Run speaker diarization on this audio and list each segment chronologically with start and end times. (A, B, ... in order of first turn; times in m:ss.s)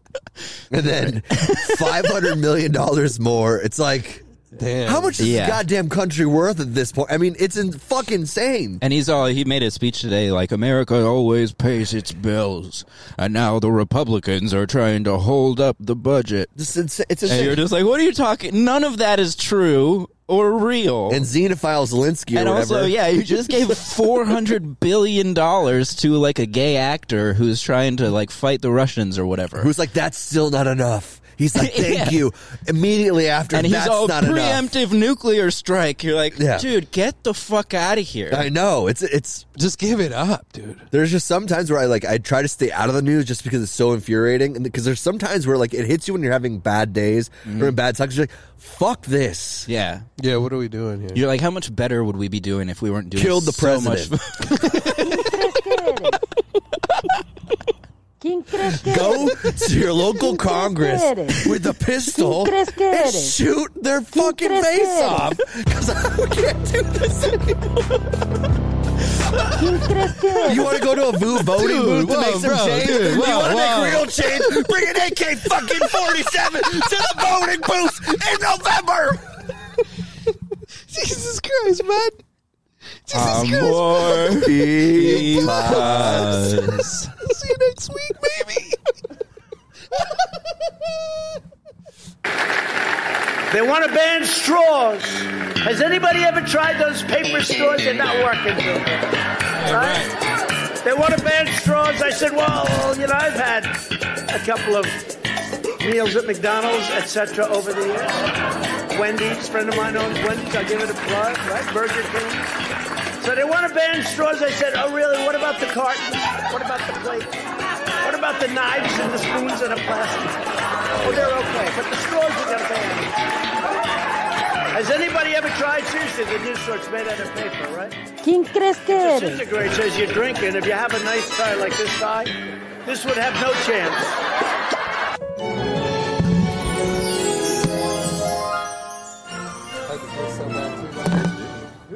0:00.7-0:04.2 A
0:04.5-0:05.3 B
0:04.8-0:08.8 A
0:05.2-0:05.6 C
0:08.8-0:16.5 C
0:16.6-0:17.6 A
0:17.2-0:21.2 C
0:21.1-0:23.0 A
0:22.3-0:29.7 C
0:29.6-0:34.6 A
0:31.5-0:32.2 C
0:33.5-0:38.5 C
0:36.4-0:36.7 A
0:38.3-0:39.4 A
0:39.6-0:40.9 B
0:40.9-0:49.7 A
0:47.4-0:47.8 C
0:49.7-0:50.1 C
0:50.2-0:51.2 B
0:51.1-0:54.8 C
0:53.1-0:54.1 A
0:54.6-0:54.8 B
0:55.0-0:56.2 D
0:58.2-0:59.5 D
0:58.8-1:07.7 A
1:00.1-1:01.5 D
1:02.1-1:03.4 D
1:04.1-1:05.3 D
1:09.6-1:10.8 D
1:10.4-1:19.2 A
1:11.3-1:14.2 B
1:20.9-1:22.2 B
1:23.0-1:24.3 B
1:23.1-1:27.1 C
1:24.4-1:26.5 A
1:25.6-1:26.3 B
1:27.1-1:28.8 B
1:33.5-1:40.1 E
1:39.5-1:40.1 B
1:40.8-1:45.0 E
1:45.8-1:48.3 E
1:48.9-1:52.4 E
1:53.2-1:57.3 E
1:58.0-2:00.4 E
2:00.9-2:01.3 A
2:01.0-2:03.1 E
2:04.7-2:08.0 E
2:08.2-2:09.4 D
2:08.9-2:14.2 E
2:19.9-2:21.3 B